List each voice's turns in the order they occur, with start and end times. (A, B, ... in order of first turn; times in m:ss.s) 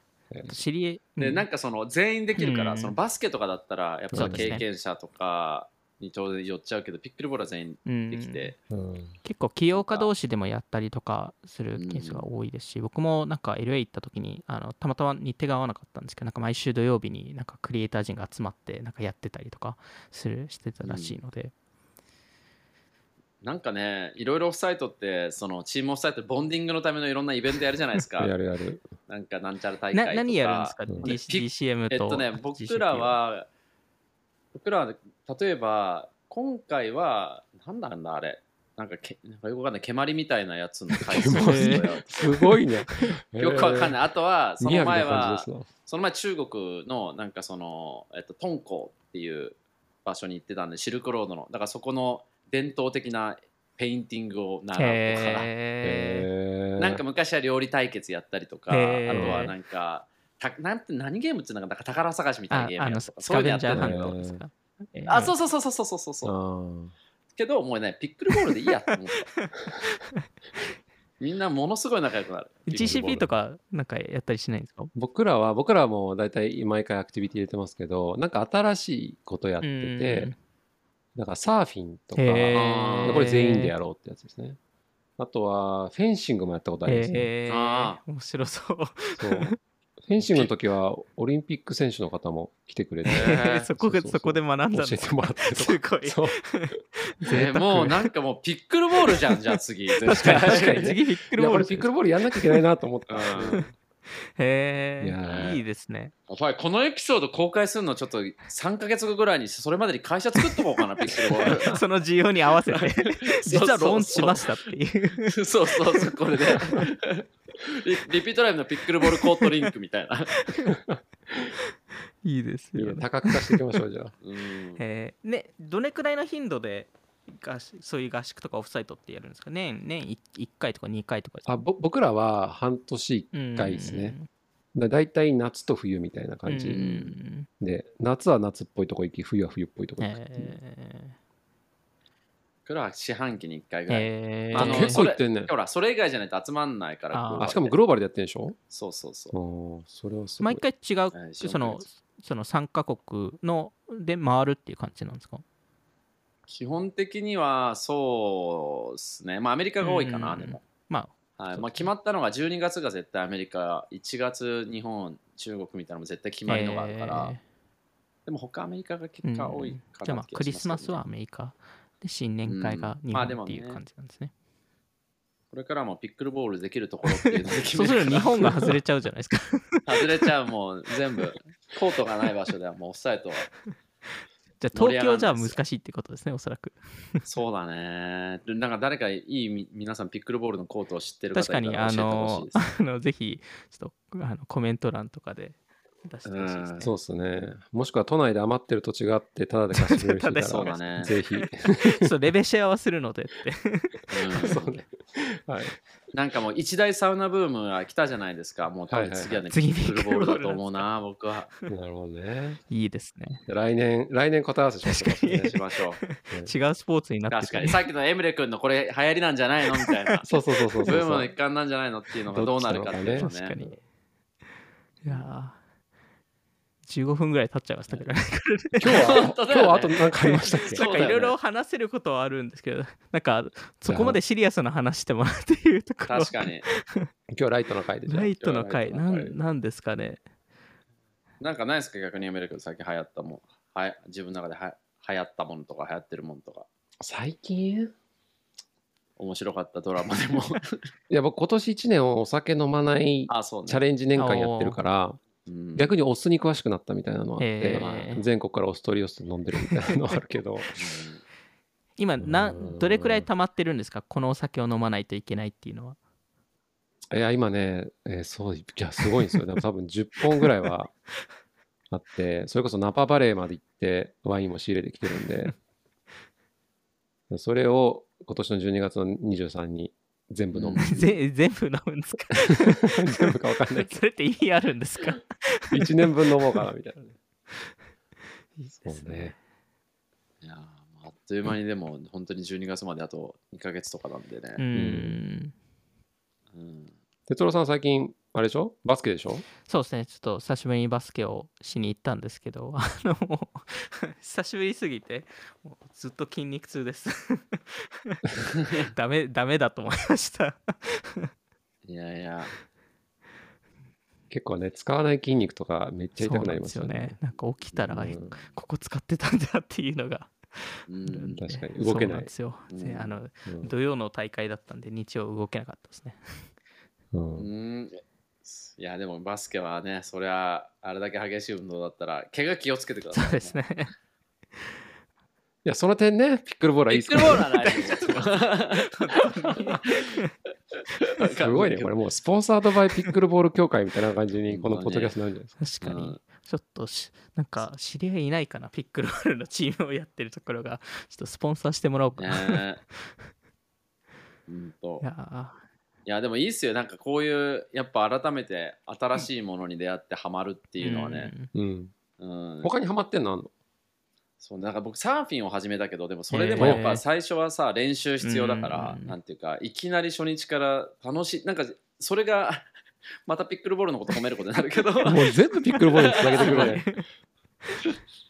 0:00.3-0:00.6 A
0:00.5-0:01.4 B
0:01.2-0:08.6 C
0:02.4-0:03.0 B
0:04.1-0:04.6 A
0:04.1-0:04.6 B
0:07.8-0:08.5 B
0:08.7-0:09.2 A
0:09.2-0:21.5 B
0:09.7-0:10.1 C
0:11.8-0:12.2 C
0:20.8-0:21.2 C
0:23.4-0:28.3 C
0:28.2-0:28.9 A
0:29.1-0:33.5 C
0:29.9-0:33.2 B
0:34.5-0:42.5 C
0:40.9-0:44.0 A
0:41.3-0:41.9 B
0:43.4-0:55.5 C
0:44.6-0:45.7 A
0:54.8-0:56.3 B
0:55.8-0:57.0 A
0:56.8-1:04.2 C
0:58.7-0:59.5 B
0:59.1-0:59.5 A
1:02.5-1:05.3 B
1:03.7-1:04.4 A
1:05.1-1:06.3 C
1:06.2-1:07.0 A
1:07.4-1:09.3 C
1:09.3-1:10.2 B
1:11.2-1:13.2 C
1:12.7-1:14.9 B
1:12.8-1:13.3 A
1:15.0-1:20.3 A
1:19.6-1:20.4 B
1:21.2-1:24.6 A
1:22.2-1:23.7 B
1:22.5-1:23.3 C
1:25.2-1:27.3 A
1:26.9-1:29.6 B
1:27.5-1:28.0 C
1:29.2-1:29.5 A
1:30.0-1:37.9 A
1:30.2-1:30.5 C
1:33.0-1:33.7 C
1:33.0-1:38.0 B
1:37.3-1:40.9 C
1:40.0-1:42.6 B
1:40.1-1:43.7 A
1:43.1-1:43.7 C
1:44.4-1:46.1 B
1:45.0-1:45.6 A
1:45.2-1:45.6 C
1:46.3-1:51.8 C
1:50.4-1:56.9 B
1:52.7-1:54.5 C
1:55.2-2:00.4 C
1:59.0-1:59.5 B
2:00.4-2:00.7 B
2:00.7-2:01.5 A
2:02.2-2:03.7 B
2:02.8-2:04.1 A
2:04.2-2:04.8 C
2:04.8-2:11.6 B
2:11.5-2:14.2 A
2:13.3-2:14.3 B
2:14.7-2:16.8 A
2:16.5-2:17.5 B
2:16.7-2:17.2 C
2:17.6-2:20.6 A
2:20.0-2:21.2 B
2:22.7-2:27.8 C
2:23.9-2:25.0 B
2:24.5-2:25.5 A
2:27.1-2:27.5 B
2:27.4-2:28.6 A
2:28.7-2:29.4 C
2:29.3-2:30.6 A
2:30.4-2:35.4 B
2:31.1-2:31.8 C
2:36.5-2:40.6 C
2:39.8-2:41.9 B
2:41.4-2:47.3 C
2:46.5-2:47.4 B
2:48.3-2:51.0 C
2:49.2-2:54.3 B
2:52.5-2:53.8 C
2:55.5-2:58.7 C
2:57.1-3:00.2 B
2:59.9-3:03.5 C
3:04.6-3:07.2 B
3:04.7-3:05.6 C
3:07.3-3:12.6 C
3:11.3-3:16.9 B
3:16.2-3:16.9 C
3:16.8-3:22.1 A
3:19.7-3:24.6 B
3:20.5-3:21.1 C
3:24.1-3:24.7 C
3:24.4-3:25.8 A
3:26.1-3:31.5 C
3:28.9-3:29.4 A
3:29.5-3:30.9 B
3:31.7-3:32.6 A
3:32.7-3:33.4 B
3:33.5-3:35.6 A
3:34.9-3:37.9 B
3:35.4-3:36.0 C
3:37.3-3:40.3 C
3:39.8-3:40.2 B
3:40.3-3:41.3 A
3:40.9-3:43.6 C
3:42.3-3:43.7 A
3:43.2-3:43.8 B
3:45.0-3:45.6 B
3:46.9-3:49.2 B
3:48.8-3:50.9 A
3:48.9-3:51.4 C
3:50.6-3:57.1 B
3:53.9-3:54.2 A
3:56.1-3:56.7 C
3:57.3-3:58.4 A
3:58.1-4:00.2 B
3:58.4-3:59.3 C
4:01.4-4:06.7 C
4:07.0-4:07.9 A
4:09.2-4:10.9 C
4:11.1-4:15.2 A
4:13.3-4:13.8 C
4:14.2-4:14.8 B
4:15.5-4:15.9 C
4:15.8-4:20.7 A
4:17.4-4:18.2 B
4:17.7-4:18.2 C
4:20.8-4:21.2 C
4:22.0-4:26.0 B
4:22.2-4:23.3 A
4:27.1-4:30.9 A
4:31.9-4:35.6 A
4:37.3-4:41.2 A
4:40.5-4:41.0 C
4:40.8-4:45.9 B
4:42.5-4:44.0 A
4:45.7-4:47.2 A
4:48.6-4:49.4 B
4:48.8-4:49.4 A
4:50.4-4:54.6 C
4:54.6-4:55.5 B
4:54.7-4:55.2 A
4:56.5-4:56.9 C
4:57.3-4:59.4 A
4:59.6-5:11.3 B
5:08.6-5:08.9 C
5:11.8-5:12.5 C
5:14.3-5:17.2 A
5:16.2-5:26.5 B
5:17.7-5:18.5 C
5:17.9-5:18.4 A
5:20.9-5:21.4 C
5:21.4-5:22.3 A
5:22.7-5:23.2 C
5:23.5-5:23.7 A
5:27.1-5:27.5 A
5:27.4-5:33.6 C
5:33.1-5:33.9 B
5:35.6-5:37.5 A
5:36.9-5:38.9 C
5:37.5-5:38.2 B
5:38.8-5:40.3 B
5:39.8-5:40.2 C
5:41.0-5:41.9 C
5:41.4-5:45.6 A
5:44.5-5:45.1 C
5:45.6-5:52.6 B
5:45.8-5:46.2 C
5:52.2-5:52.8 C
5:54.5-5:55.0 C
5:55.0-5:55.6 B
5:56.1-6:01.3 C
6:00.8-6:01.5 B
6:01.5-6:01.9 A
6:02.2-6:02.7 C
6:02.6-6:03.5 A
6:04.4-6:12.7 C
6:06.3-6:07.0 B
6:06.6-6:06.8 A
6:08.2-6:09.2 B
6:13.3-6:15.3 C
6:15.0-6:16.9 A
6:15.7-6:17.0 B
6:15.9-6:16.8 C